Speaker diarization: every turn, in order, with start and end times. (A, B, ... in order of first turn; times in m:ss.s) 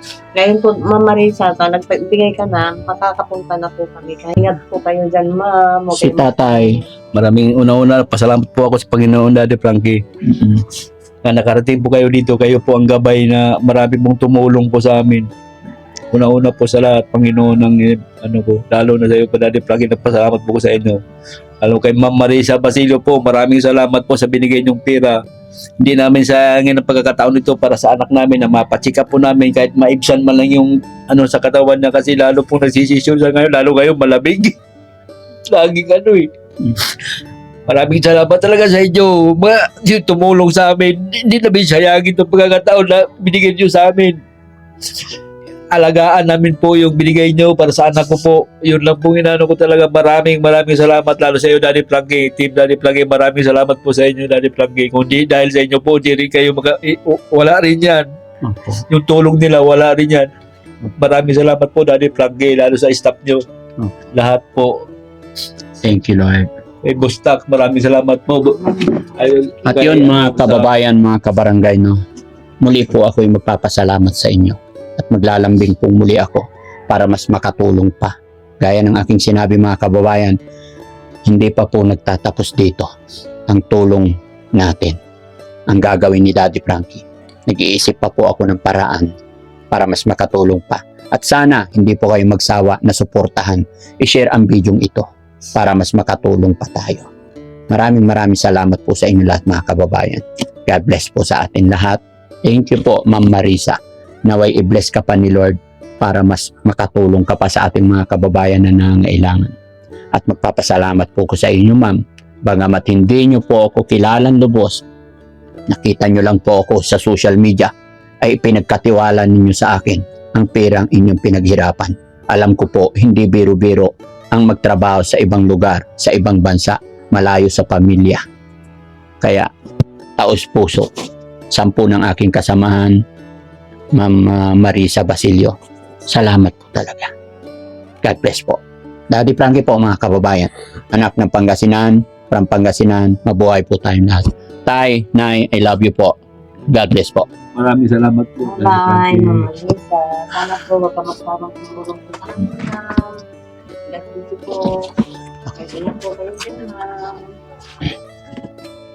0:00.3-0:06.8 A
0:06.0-0:06.8 B
0:07.1-0:10.0 C
0:10.2-0:10.6 B
0:11.2-0:15.3 C
0:16.1-0:21.0 C
0:21.6-0:25.2 C
0:25.8-0:34.6 C
0:35.5-0:36.3 C
0:37.7-0:44.2 C
0:45.7-0:58.1 C
0:58.4-0:58.8 B
0:58.9-1:00.3 C
1:00.9-1:03.4 C
1:04.1-1:04.9 C
1:05.8-1:06.5 B
1:06.8-1:10.7 C
1:09.6-1:12.0 B
1:12.6-1:20.4 B
1:21.2-1:22.9 B
1:23.5-1:25.0 B
1:25.7-1:29.1 B
1:29.7-1:37.1 B
1:37.7-1:49.5 B
1:50.1-1:54.8 B
1:55.7-2:08.2 B
2:09.2-2:09.5 B
2:10.2-2:10.9 B
2:11.5-2:13.0 B
2:13.9-2:15.5 B
2:16.1-2:17.1 B
2:18.0-2:26.2 B
2:26.7-2:27.2 B
2:27.5-2:29.5 C
2:28.4-2:33.2 A
2:33.9-2:34.6 A
2:35.5-2:37.3 A